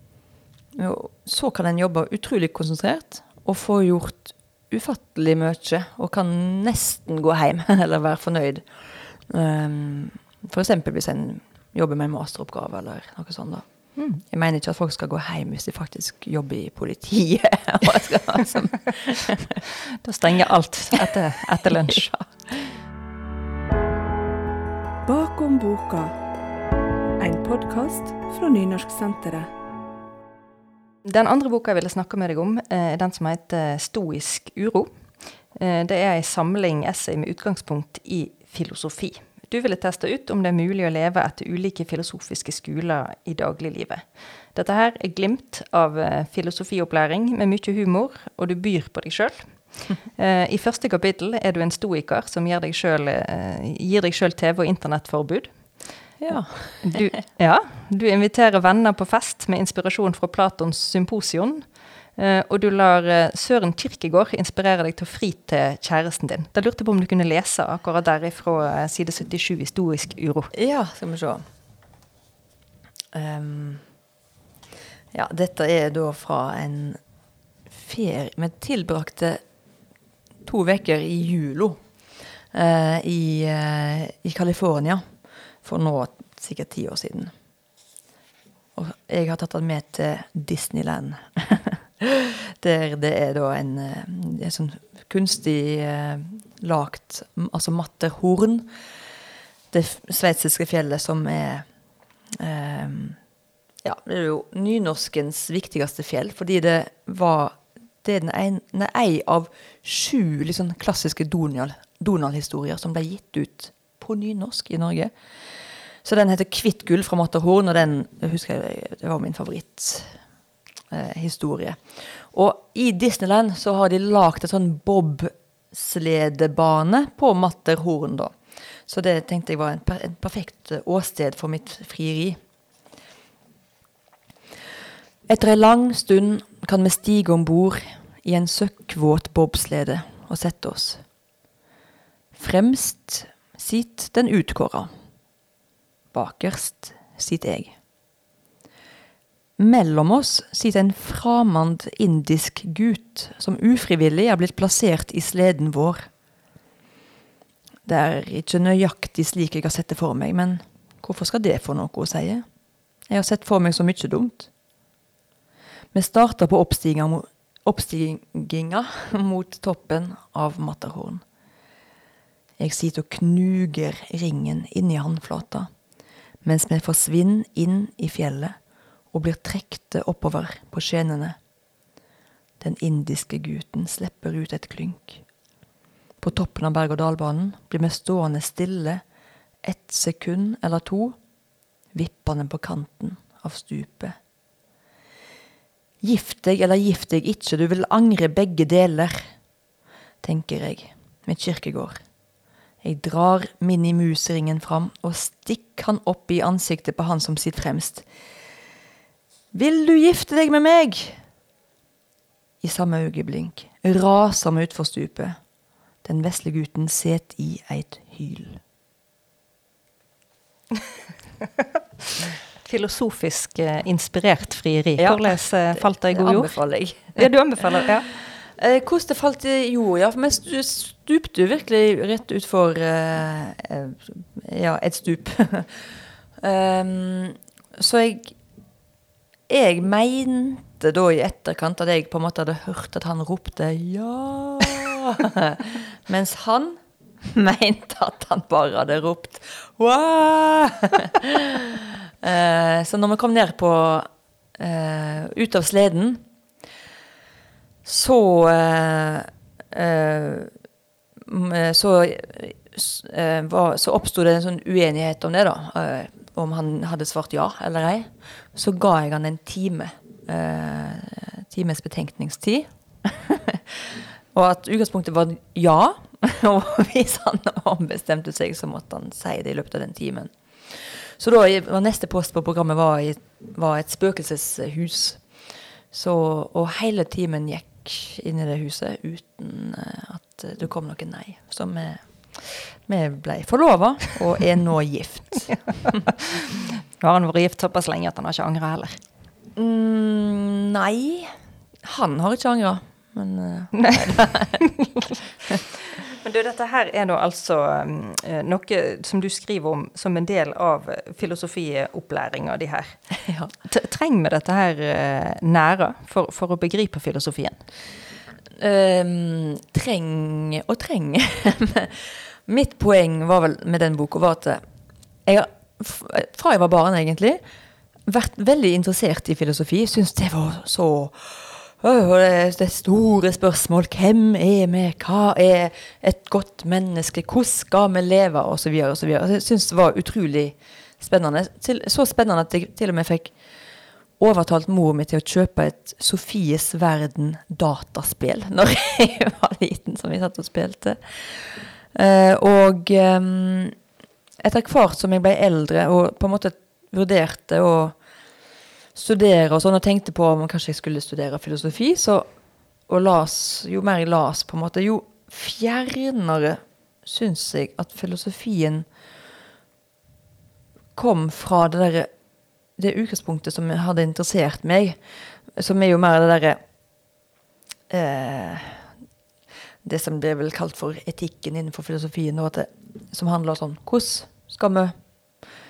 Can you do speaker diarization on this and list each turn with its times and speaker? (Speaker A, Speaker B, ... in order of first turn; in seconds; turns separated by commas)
Speaker A: 0.7-19.6, Speaker B: 14.0-14.2, Speaker B: 20.0-22.1, Speaker A: 21.8-22.7, Speaker C: 25.1-26.1, Speaker C: 27.2-29.5, Speaker B: 31.1-35.0, Speaker B: 35.5-56.1, Speaker A: 56.2-57.1, Speaker B: 56.8-70.5, Speaker A: 70.5-71.4, Speaker A: 73.1-73.8, Speaker A: 75.1-77.0, Speaker A: 77.7-79.4, Speaker A: 80.4-81.8, Speaker A: 82.5-85.0, Speaker A: 85.6-87.3, Speaker A: 88.8-98.7, Speaker A: 99.7-101.7, Speaker A: 102.3-103.2, Speaker A: 103.8-115.1, Speaker A: 116.0-120.2, Speaker A: 120.9-132.4, Speaker A: 135.3-141.0, Speaker A: 142.3-144.9, Speaker A: 146.1-147.8, Speaker A: 149.6-156.1, Speaker A: 157.9-162.4, Speaker A: 163.1-164.5, Speaker A: 165.9-171.2, Speaker A: 172.6-175.7, Speaker A: 176.4-178.6, Speaker A: 179.1-181.4, Speaker A: 182.6-185.2, Speaker A: 186.2-189.0, Speaker A: 189.6-191.2, Speaker A: 191.9-194.2, Speaker A: 196.0-199.2, Speaker A: 200.2-202.0, Speaker A: 202.8-208.1, Speaker A: 209.5-211.2, Speaker A: 212.6-215.4, Speaker A: 216.0-218.6, Speaker B: 222.6-228.1, Speaker A: 225.0-227.3, Speaker A: 228.1-235.9, Speaker A: 236.4-238.4, Speaker A: 239.5-256.2, Speaker A: 257.9-260.5, Speaker A: 261.2-285.2, Speaker A: 285.9-295.7, Speaker B: 295.5-299.0, Speaker A: 299.6-304.6, Speaker B: 303.7-305.2, Speaker B: 306.2-313.0, Speaker A: 313.2-313.5, Speaker B: 313.6-317.6, Speaker A: 318.6-324.6, Speaker A: 325.3-327.4, Speaker A: 328.1-343.4, Speaker A: 344.2-353.8, Speaker A: 354.4-358.0, Speaker A: 358.9-362.3, Speaker A: 362.9-368.9, Speaker A: 370.9-372.1, Speaker A: 372.8-375.0, Speaker A: 375.5-376.6, Speaker A: 377.9-378.9, Speaker A: 379.8-384.9